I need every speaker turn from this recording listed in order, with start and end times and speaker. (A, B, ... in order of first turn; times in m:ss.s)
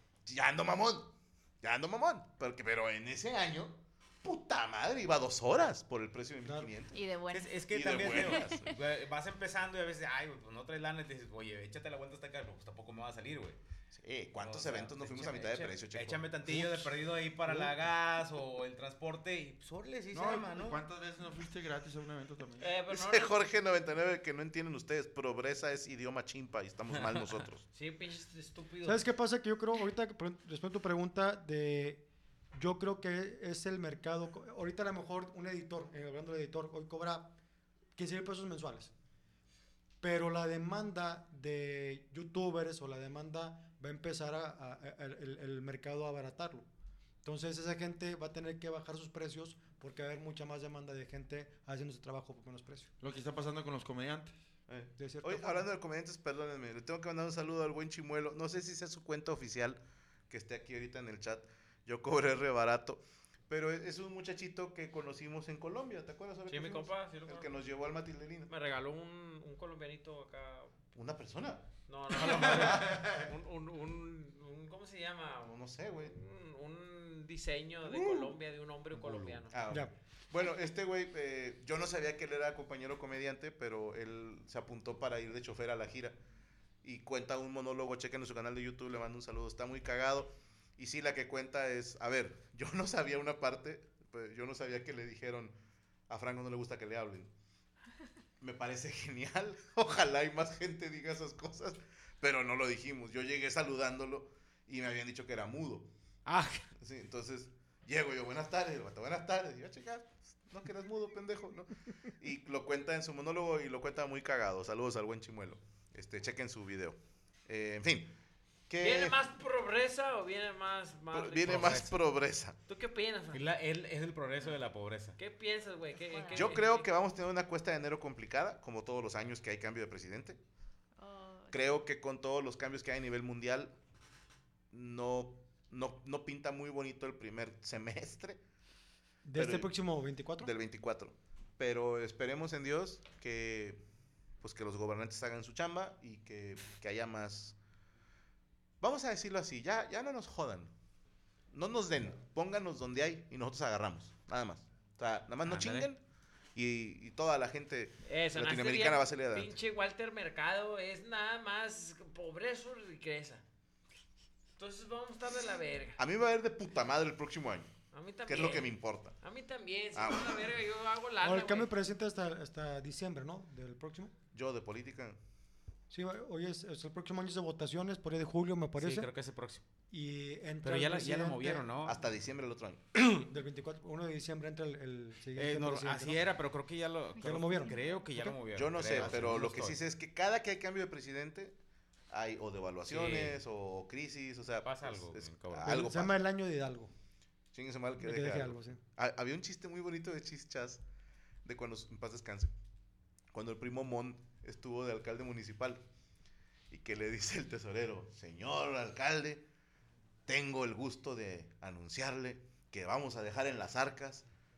0:00.2-0:07.0 A
0:06.9-0:08.7 B
0:07.3-0:13.6 C
0:07.7-0:08.7 A
0:13.9-0:16.8 A
0:14.4-0:20.8 C
0:20.1-0:22.7 D
0:22.6-0:23.4 E
0:22.9-0:27.6 A
0:27.7-0:29.1 E
0:28.8-0:32.0 F
0:32.5-0:37.3 F
0:37.9-0:38.9 F
0:40.0-0:46.6 F
0:47.2-0:52.9 F
0:53.0-0:54.3 D
0:54.7-1:08.5 A
0:55.0-0:55.6 F
1:06.5-1:07.7 E
1:08.5-1:10.8 E
1:10.9-1:13.2 A
1:11.9-1:19.5 E
1:15.4-1:16.1 A
1:17.8-1:18.4 A
1:18.9-1:26.1 A
1:26.8-1:35.6 A
1:36.1-1:37.3 A
1:38.4-1:45.9 A
1:46.8-1:58.1 A
1:58.7-1:59.2 A
1:58.8-2:01.9 E
2:01.1-2:02.6 A
2:01.4-2:01.9 C
2:02.7-2:03.4 E
2:03.3-2:05.2 C
2:05.2-2:06.9 E
2:06.1-2:06.5 B
2:06.3-2:10.4 A
2:11.0-2:11.8 B
2:11.5-2:13.7 A
2:14.7-2:18.4 A
2:19.2-2:20.5 F
2:19.4-2:19.7 A
2:20.4-2:23.8 A
2:24.4-2:27.6 A
2:28.8-2:30.7 A
2:31.5-2:36.0 A
2:35.4-2:35.9 C
2:36.5-2:39.5 A
2:38.0-2:43.4 E
2:44.6-2:46.0 E
2:46.0-2:47.7 A
2:47.9-2:51.7 E
2:48.2-2:49.1 A
2:49.9-2:50.5 A
2:51.2-2:54.1 F
2:54.3-2:55.2 A
2:55.9-2:59.1 F
2:58.8-2:59.6 C
2:59.9-3:01.7 F
3:00.6-3:02.0 C
3:01.8-3:02.8 A
3:03.0-3:06.3 F
3:05.4-3:09.8 C
3:07.1-3:07.8 B
3:07.2-3:09.4 F
3:08.5-3:11.6 A
3:12.1-3:16.2 A
3:12.9-3:13.4 C
3:14.6-3:15.8 C
3:15.6-3:16.9 F
3:17.5-3:20.8 A
3:18.0-3:18.8 F
3:21.4-3:22.5 A
3:23.3-3:25.8 A
3:26.7-3:29.4 A
3:30.3-3:34.2 A